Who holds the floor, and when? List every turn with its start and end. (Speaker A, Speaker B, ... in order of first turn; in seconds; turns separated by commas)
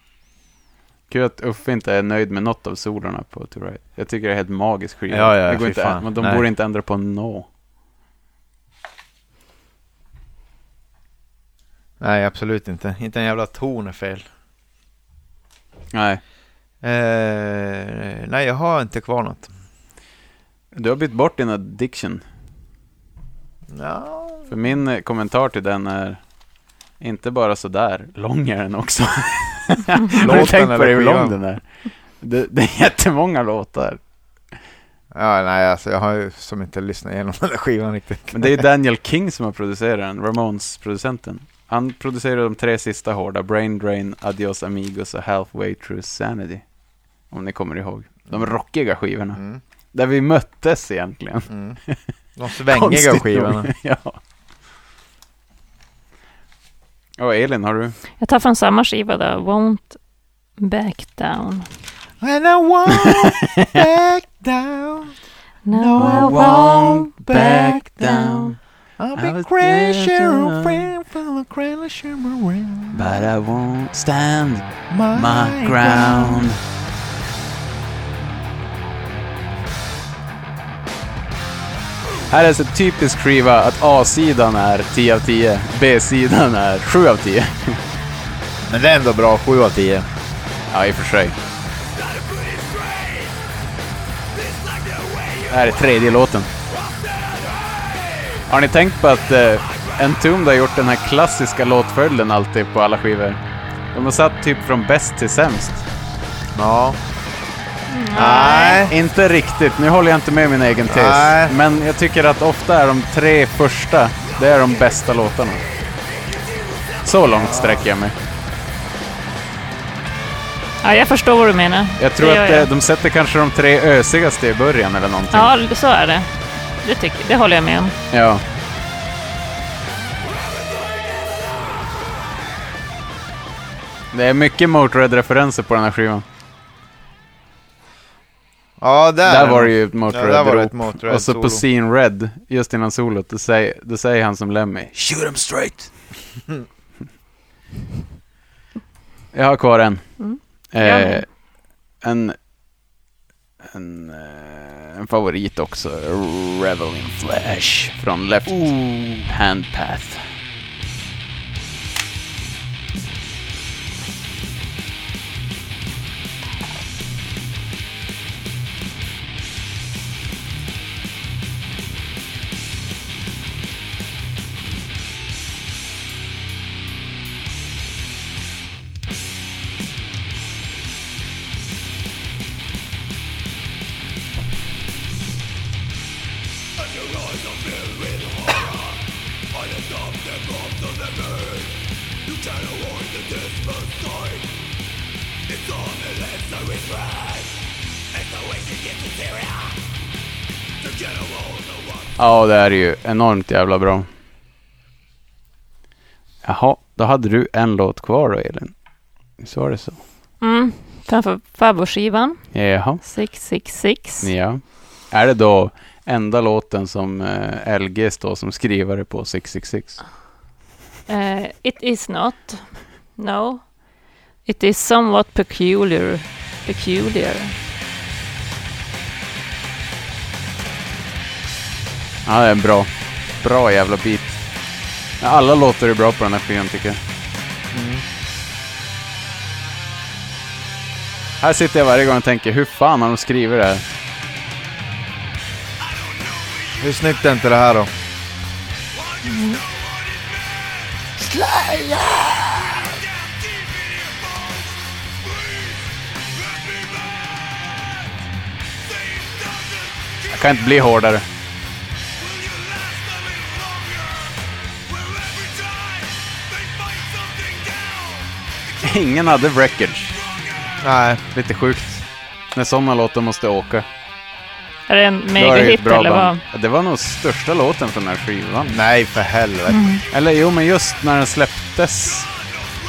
Speaker A: 1.1-7.5, Speaker B: 5.1-6.4, Speaker B: 12.0-14.3, Speaker A: 15.9-16.2, Speaker B: 16.8-19.5, Speaker A: 20.7-22.2, Speaker B: 23.7-24.5, Speaker A: 24.5-26.4, Speaker A: 26.9-34.0, Speaker B: 30.1-31.4, Speaker B: 35.1-38.6, Speaker A: 38.3-52.1, Speaker B: 48.3-48.6, Speaker B: 49.3-49.6, Speaker B: 51.5-51.8, Speaker B: 52.3-53.7, Speaker A: 52.7-54.2, Speaker A: 57.2-58.0, Speaker C: 58.2-61.7, Speaker B: 62.2-65.2, Speaker C: 65.6-67.1, Speaker B: 65.7-68.4, Speaker A: 66.0-68.6, Speaker B: 69.0-73.2, Speaker A: 69.1-70.9, Speaker A: 72.9-76.6, Speaker B: 74.9-76.5, Speaker A: 82.3-87.8, Speaker B: 88.7-90.1, Speaker A: 90.7-91.3, Speaker A: 95.4-96.5, Speaker A: 98.5-103.4, Speaker A: 103.9-105.8, Speaker B: 106.5-107.0, Speaker C: 107.9-108.9, Speaker B: 108.1-108.9, Speaker A: 108.9-115.6, Speaker B: 110.9-111.5, Speaker A: 117.0-118.1, Speaker B: 117.3-117.8, Speaker C: 120.8-122.7, Speaker A: 122.0-125.5, Speaker C: 125.3-127.9, Speaker A: 128.1-128.4, Speaker A: 134.1-136.2, Speaker B: 138.8-141.6, Speaker A: 139.2-145.8, Speaker B: 144.9-145.8, Speaker A: 149.3-151.4, Speaker C: 150.2-151.2, Speaker A: 151.9-152.4, Speaker A: 153.6-160.2, Speaker A: 202.2-204.1, Speaker A: 206.4-208.8, Speaker A: 209.4-210.0, Speaker C: 210.4-214.3, Speaker A: 212.5-213.0, Speaker A: 214.2-220.0, Speaker C: 221.1-227.5, Speaker A: 232.2-234.4, Speaker A: 235.2-237.0, Speaker B: 237.7-238.0, Speaker A: 241.4-243.8, Speaker B: 246.7-247.9, Speaker C: 249.3-249.6, Speaker B: 251.2-252.8, Speaker A: 260.3-261.2, Speaker A: 268.8-270.2, Speaker B: 270.8-271.2, Speaker A: 271.3-273.9, Speaker C: 274.9-276.4, Speaker A: 275.3-278.8, Speaker B: 278.7-279.8, Speaker C: 279.7-280.0, Speaker A: 280.1-282.3